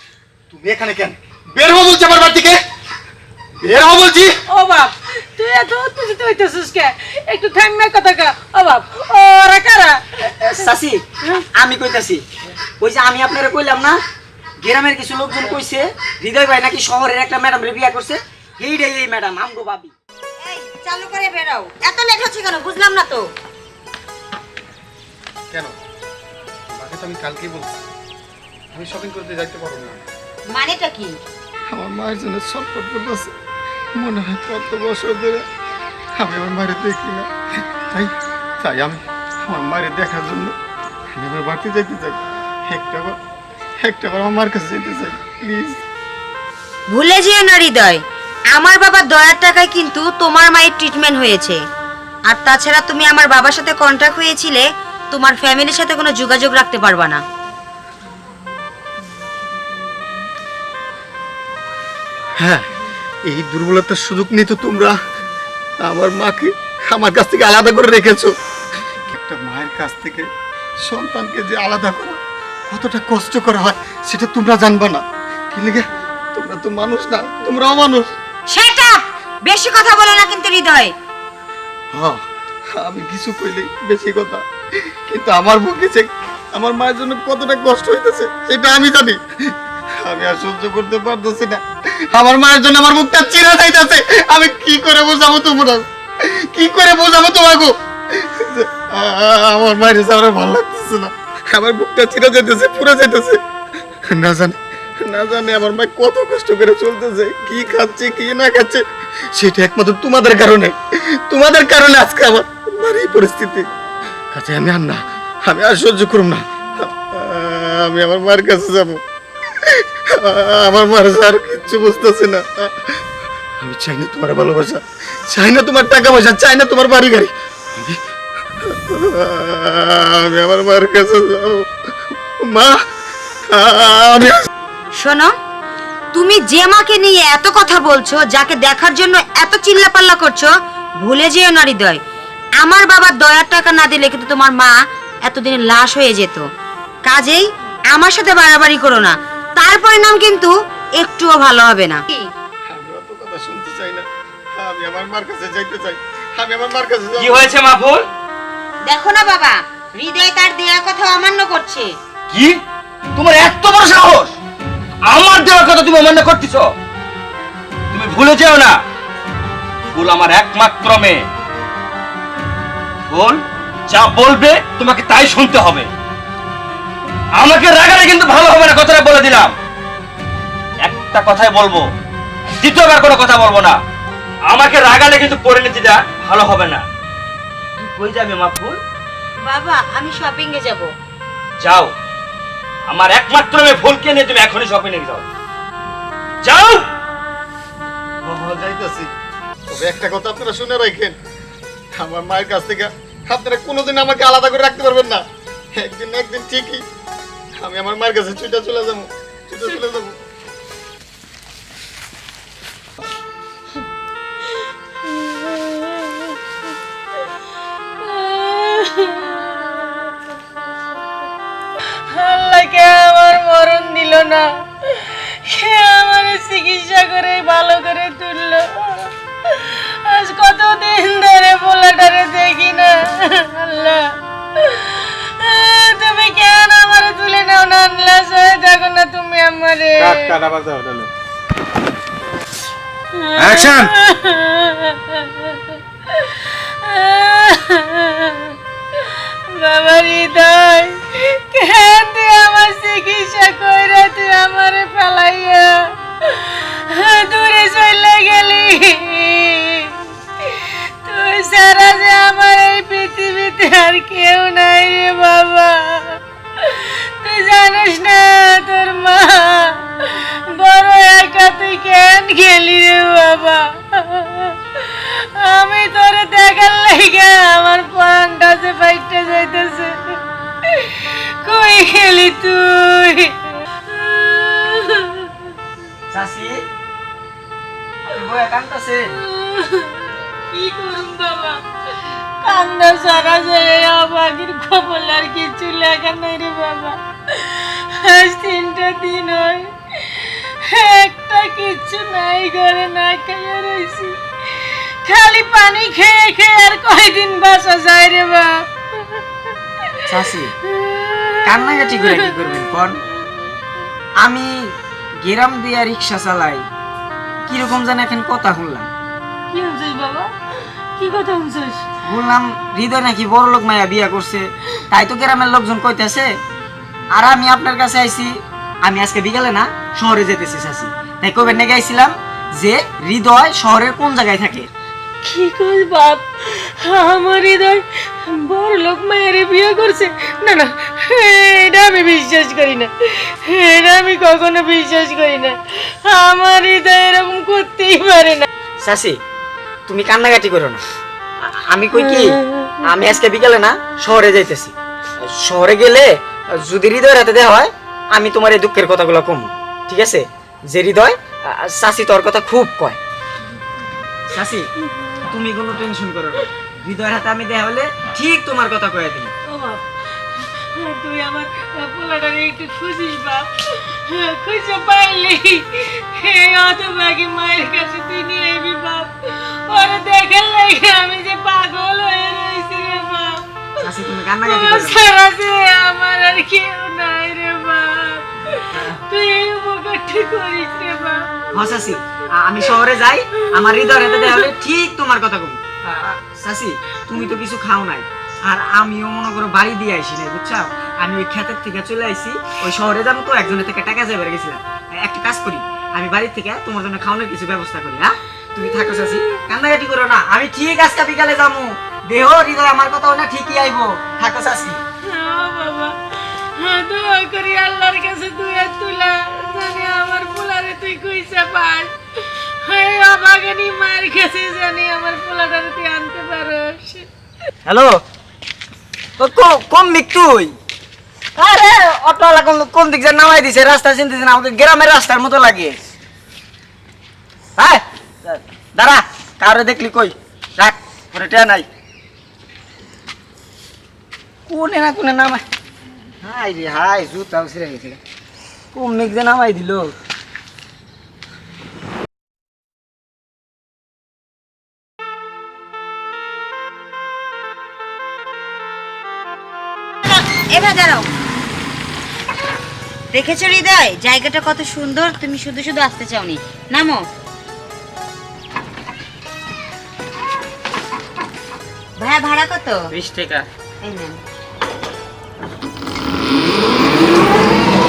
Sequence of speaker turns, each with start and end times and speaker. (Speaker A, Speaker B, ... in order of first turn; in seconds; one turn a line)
Speaker A: 0.5-2.6
Speaker A: 3.6-4.3
Speaker B: 4.5-10.0
Speaker C: 10.2-11.0
Speaker C: 11.5-12.2
Speaker C: 12.8-14.0
Speaker C: 14.6-19.9
Speaker D: 20.4-23.2
Speaker A: 26.7-27.8
Speaker A: 28.7-30.0
Speaker D: 30.5-31.1
Speaker A: 31.7-33.3
Speaker A: 34.0-35.4
Speaker A: 36.1-40.5
Speaker A: 41.1-43.1
Speaker A: 43.8-45.8
Speaker D: 46.9-48.0
Speaker D: 48.5-51.6
Speaker D: 52.3-57.2
Speaker A: 62.4-62.6
Speaker A: 63.2-65.0
Speaker A: 65.8-68.3
Speaker A: 69.0-70.3
Speaker A: 70.8-78.1
Speaker D: 78.5-80.9
Speaker A: 81.9-82.2
Speaker A: 82.7-103.4
Speaker A: 104.0-113.7
Speaker A: 114.3-119.0
Speaker A: 119.5-123.0
Speaker A: 123.6-128.0
Speaker A: 128.6-131.7
Speaker A: 132.4-132.8
Speaker A: 133.5-134.5
Speaker D: 135.0-135.3
Speaker D: 136.1-142.0
Speaker D: 142.6-146.4
Speaker D: 147.0-152.3
Speaker A: 152.7-157.5
Speaker E: 157.2-158.0
Speaker D: 158.8-161.9
Speaker E: 162.3-162.6
Speaker E: 163.1-164.3
Speaker E: 165.0-166.7
Speaker E: 167.9-168.8
Speaker E: 169.9-171.3
Speaker E: 173.1-175.9
Speaker E: 177.3-179.5
Speaker E: 180.8-181.9
Speaker E: 182.6-183.8
Speaker E: 184.5-186.8
Speaker E: 187.8-188.8
Speaker D: 189.4-190.9
Speaker E: 191.6-191.9
Speaker E: 192.9-195.2
Speaker E: 196.4-196.8
Speaker A: 198.2-199.1
Speaker A: 199.7-201.2
Speaker A: 201.9-205.2
Speaker A: 205.7-206.8
Speaker A: 207.6-210.2
Speaker B: 215.0-216.3
Speaker B: 218.0-220.1
Speaker B: 222.1-240.4
Speaker A: 240.1-241.1
Speaker B: 243.1-248.5
Speaker E: 243.4-243.9
Speaker B: 249.5-259.9
Speaker B: 260.5-283.4
Speaker B: 283.9-285.3
Speaker C: 286.1-286.6
Speaker C: 288.0-289.1
Speaker B: 289.2-291.6
Speaker B: 292.4-309.2
Speaker C: 310.1-310.5
Speaker B: 310.7-312.4
Speaker C: 311.4-313.0
Speaker C: 314.2-316.6
Speaker C: 317.5-318.9
Speaker B: 319.5-320.3
Speaker B: 320.9-321.8
Speaker C: 322.1-326.3
Speaker C: 327.1-334.7
Speaker B: 335.2-348.4
Speaker C: 348.8-349.2
Speaker C: 349.9-350.8
Speaker C: 351.4-363.0
Speaker C: 364.3-364.7
Speaker C: 365.2-369.3
Speaker B: 369.5-392.0
Speaker C: 383.8-385.1
Speaker C: 391.5-414.8
Speaker B: 393.6-394.4
Speaker B: 408.6-409.2
Speaker B: 415.1-415.9
Speaker B: 416.5-421.9
Speaker B: 422.6-427.1
Speaker C: 427.6-428.0
Speaker C: 429.2-430.5
Speaker C: 431.4-435.8
Speaker C: 437.6-441.7
Speaker C: 444.5-445.4
Speaker C: 446.2-448.0
Speaker C: 448.7-449.9
Speaker D: 460.0-461.1
Speaker D: 463.1-467.0
Speaker D: 472.0-472.9
Speaker D: 473.8-474.2